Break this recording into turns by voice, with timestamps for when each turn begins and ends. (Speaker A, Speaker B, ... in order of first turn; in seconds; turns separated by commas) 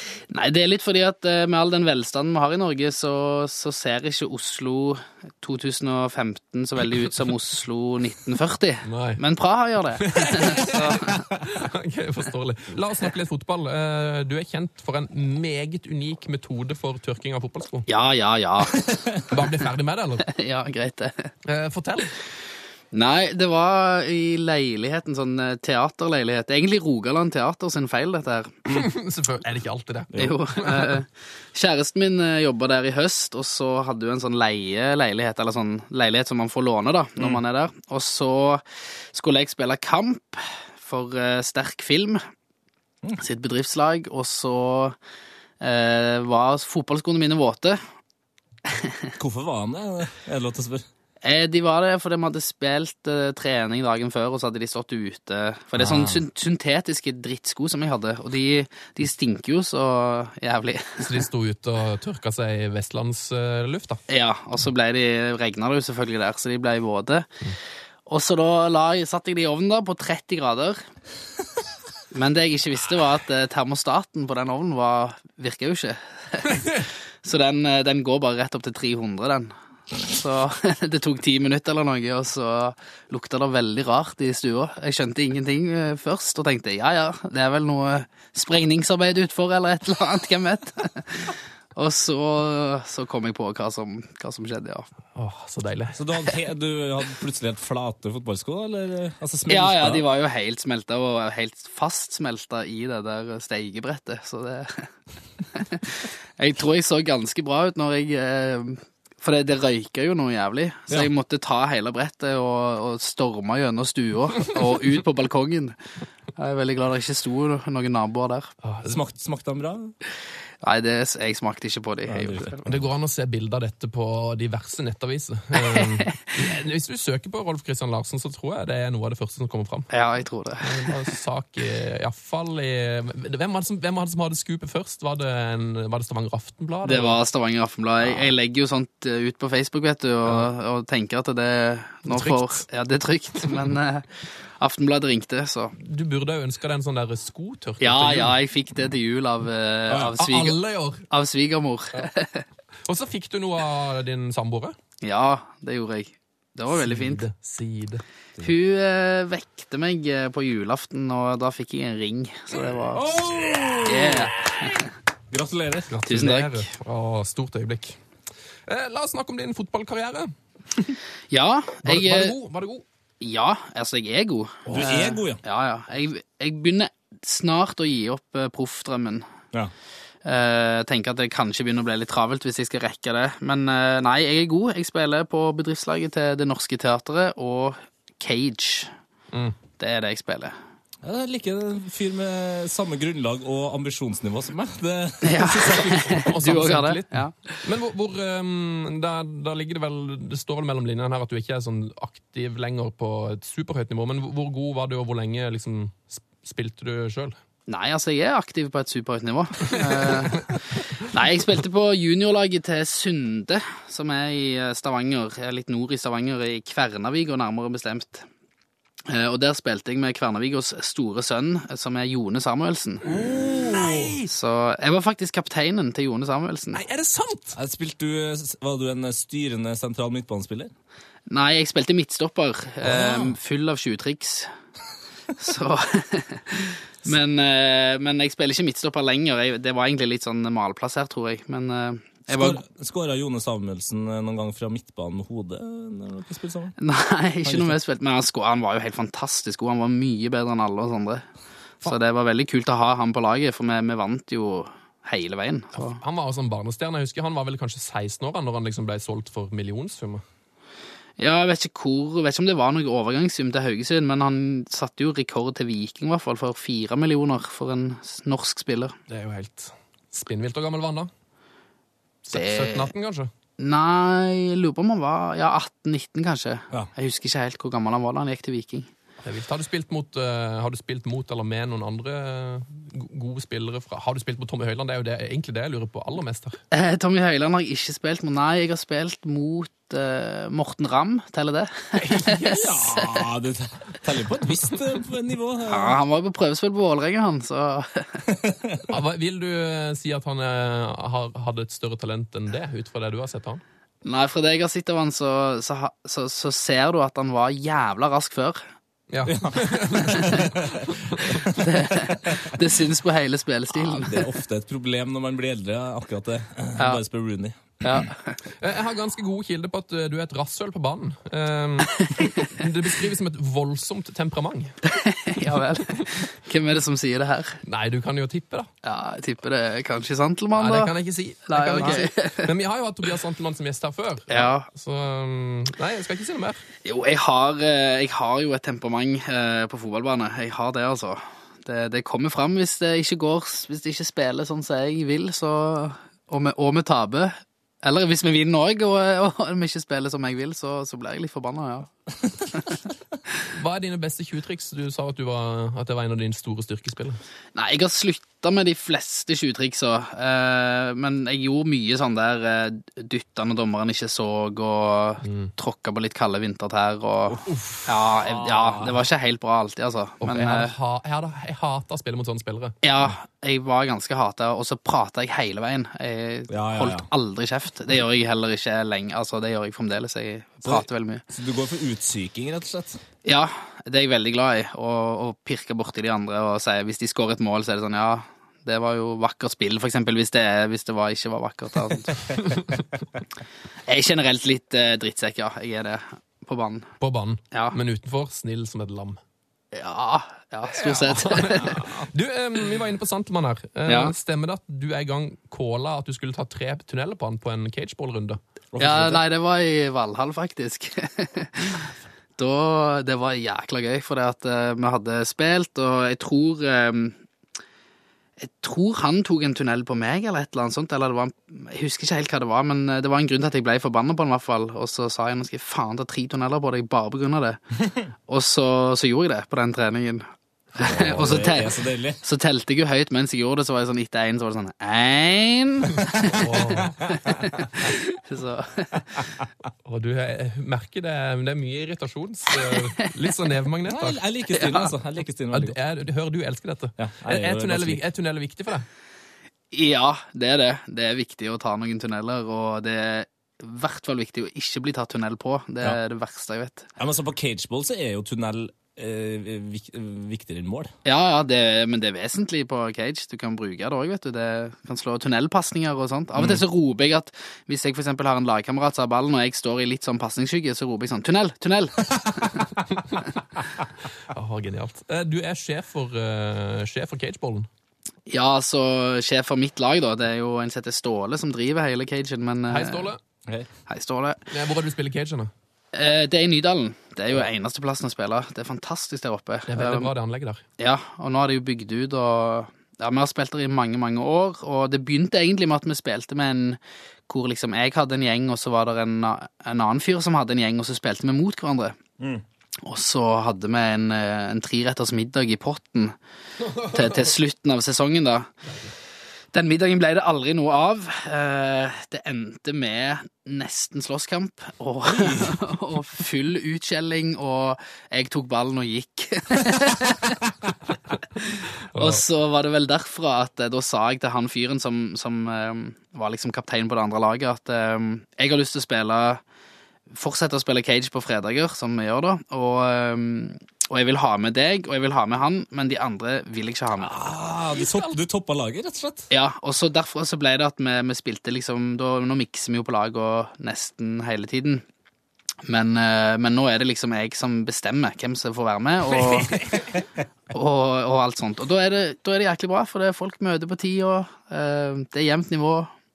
Speaker A: 0.3-11.2, Speaker B: 8.8-9.2, Speaker B: 10.0-17.9, Speaker A: 17.9-18.8, Speaker C: 18.9-19.1, Speaker B: 19.2-20.3, Speaker A: 20.2-21.3, Speaker B: 21.4-22.1, Speaker A: 22.9-28.6, Speaker B: 28.7-31.0, Speaker A: 30.2-42.2, Speaker A: 43.2-45.0, Speaker A: 45.6-47.8, Speaker A: 48.7-49.1, Speaker C: 49.2-50.9, Speaker A: 51.2-61.2, Speaker C: 55.8-56.2, Speaker B: 61.0-64.0, Speaker A: 64.1-67.3, Speaker A: 68.1-70.8, Speaker A: 72.1-79.5, Speaker A: 80.0-94.9, Speaker B: 95.1-96.0, Speaker C: 95.9-100.0, Speaker A: 99.5-104.9, Speaker A: 105.5-115.8, Speaker A: 116.3-118.5, Speaker B: 118.6-119.0, Speaker C: 118.8-119.9, Speaker A: 120.6-122.7, Speaker C: 122.1-122.6, Speaker B: 122.7-129.9, Speaker A: 125.6-126.1, Speaker A: 129.9-131.0, Speaker B: 130.6-137.2, Speaker A: 136.8-144.1, Speaker B: 142.1-142.6, Speaker A: 144.6-145.7, Speaker B: 145.8-148.3, Speaker A: 147.8-150.6, Speaker C: 149.9-150.1, Speaker B: 150.2-151.1, Speaker A: 151.1-152.4, Speaker B: 152.8-154.7, Speaker A: 155.0-157.2, Speaker B: 156.7-158.0, Speaker A: 158.4-163.0, Speaker C: 162.9-164.7, Speaker A: 163.8-164.8, Speaker C: 165.3-165.9, Speaker B: 165.9-168.0, Speaker A: 166.1-166.7, Speaker B: 168.7-170.9, Speaker A: 171.3-172.3, Speaker B: 171.8-172.8, Speaker A: 173.2-179.3, Speaker C: 174.7-175.4, Speaker A: 180.2-188.9, Speaker B: 189.3-189.6, Speaker A: 189.8-190.5, Speaker C: 191.0-196.1, Speaker A: 195.2-197.6, Speaker B: 195.8-207.3, Speaker A: 207.7-218.2, Speaker A: 219.1-223.1, Speaker C: 223.1-224.2, Speaker B: 223.2-224.3, Speaker A: 224.3-226.8, Speaker B: 226.7-227.6, Speaker C: 227.5-230.7, Speaker A: 231.3-234.5, Speaker C: 232.8-233.4, Speaker A: 235.4-242.6, Speaker C: 242.3-246.8, Speaker A: 246.8-251.2, Speaker C: 247.4-247.7, Speaker A: 251.8-256.0, Speaker B: 255.7-260.2, Speaker A: 261.2-268.9, Speaker B: 269.1-271.1, Speaker B: 272.2-273.3, Speaker A: 272.3-272.9, Speaker A: 273.6-278.9, Speaker B: 279.2-286.6, Speaker A: 286.7-292.6, Speaker B: 292.0-292.7, Speaker C: 292.4-295.9, Speaker A: 295.7-298.2, Speaker C: 298.2-298.8, Speaker B: 298.9-303.6, Speaker A: 304.0-308.6, Speaker B: 309.1-311.3, Speaker C: 309.2-312.5, Speaker A: 310.1-310.4, Speaker A: 311.5-314.3, Speaker C: 313.7-317.6, Speaker A: 316.8-317.0, Speaker A: 317.8-318.4, Speaker B: 318.6-324.8, Speaker A: 324.9-327.6, Speaker B: 325.4-326.2, Speaker B: 327.6-328.7, Speaker A: 328.8-330.9, Speaker B: 330.6-336.6, Speaker A: 331.5-332.5, Speaker A: 334.3-334.7, Speaker A: 336.8-351.9, Speaker B: 353.5-357.2, Speaker A: 357.5-370.7, Speaker B: 365.2-365.5, Speaker B: 367.5-367.8, Speaker C: 368.2-369.0, Speaker B: 370.2-372.8, Speaker A: 372.8-381.2, Speaker C: 376.5-377.1, Speaker C: 380.6-383.0, Speaker A: 383.2-392.2, Speaker B: 392.4-392.8, Speaker A: 393.9-396.9, Speaker B: 397.0-399.2, Speaker A: 397.5-397.8, Speaker A: 399.7-401.8, Speaker B: 400.8-408.4, Speaker C: 401.6-402.0, Speaker A: 403.9-404.1, Speaker C: 408.7-409.2, Speaker A: 408.8-411.9, Speaker A: 412.4-417.2, Speaker A: 418.4-427.6, Speaker A: 428.3-436.4, Speaker C: 430.8-432.2, Speaker B: 436.3-437.0, Speaker C: 436.8-437.4, Speaker A: 437.2-439.2, Speaker B: 439.8-444.2, Speaker C: 443.9-445.8, Speaker A: 444.6-444.9, Speaker B: 445.5-448.9, Speaker C: 447.0-448.0, Speaker A: 449.7-456.9, Speaker C: 457.0-460.9, Speaker A: 461.0-472.6, Speaker B: 474.3-477.7, Speaker A: 478.3-483.1, Speaker B: 482.7-483.2, Speaker A: 483.9-484.4, Speaker B: 484.5-485.5, Speaker A: 485.9-490.1, Speaker B: 489.7-490.6, Speaker A: 490.8-502.0, Speaker A: 502.8-506.1, Speaker B: 506.7-507.2, Speaker A: 506.7-508.5, Speaker A: 509.5-520.4, Speaker C: 515.0-515.6, Speaker A: 521.5-529.4, Speaker B: 521.9-522.2, Speaker A: 530.1-537.1, Speaker C: 537.0-539.3, Speaker B: 537.7-538.1, Speaker A: 539.3-544.8, Speaker A: 545.6-549.6, Speaker A: 550.5-555.9